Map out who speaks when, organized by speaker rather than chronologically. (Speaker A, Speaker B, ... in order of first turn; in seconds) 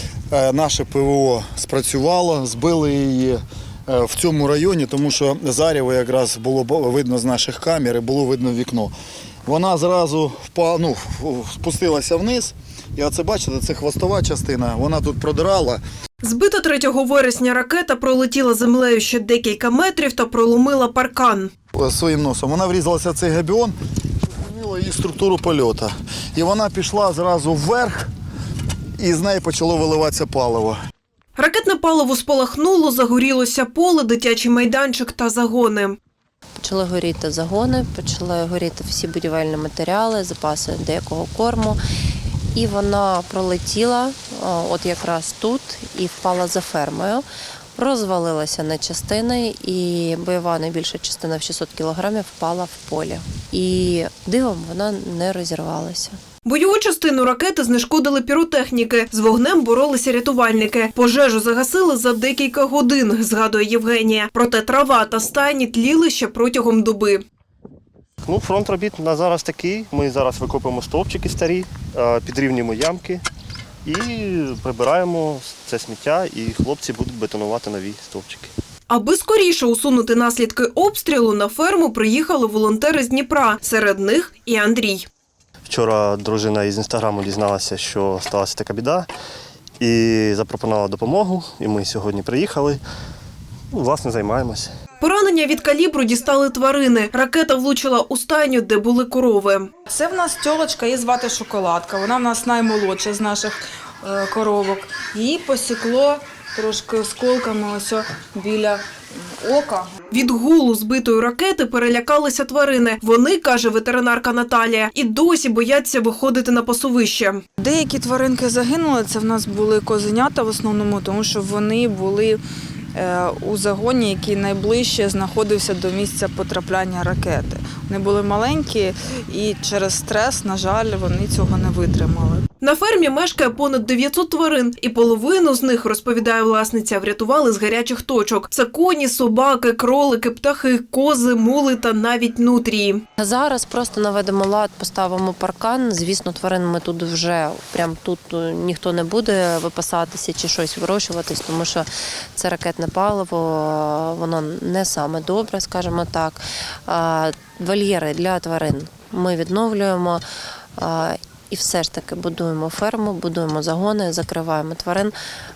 Speaker A: 0.3-8.9, 9.4-15.8, 21.7-23.7, 24.4-28.1, 29.0-30.8
Speaker B: 16.2-21.5, 31.4-36.0, 56.4-67.2, 78.9-85.1, 95.0-99.7, 110.1-117.4, 132.6-143.0
Speaker C: 36.6-41.8, 42.5-47.2, 47.8-56.2, 143.2-160.2, 160.8-165.1
Speaker D: 68.2-73.2, 73.8-78.5, 85.6-89.1, 89.8-92.8, 93.7-94.7
Speaker E: 99.9-109.9, 117.6-122.4, 122.9-132.4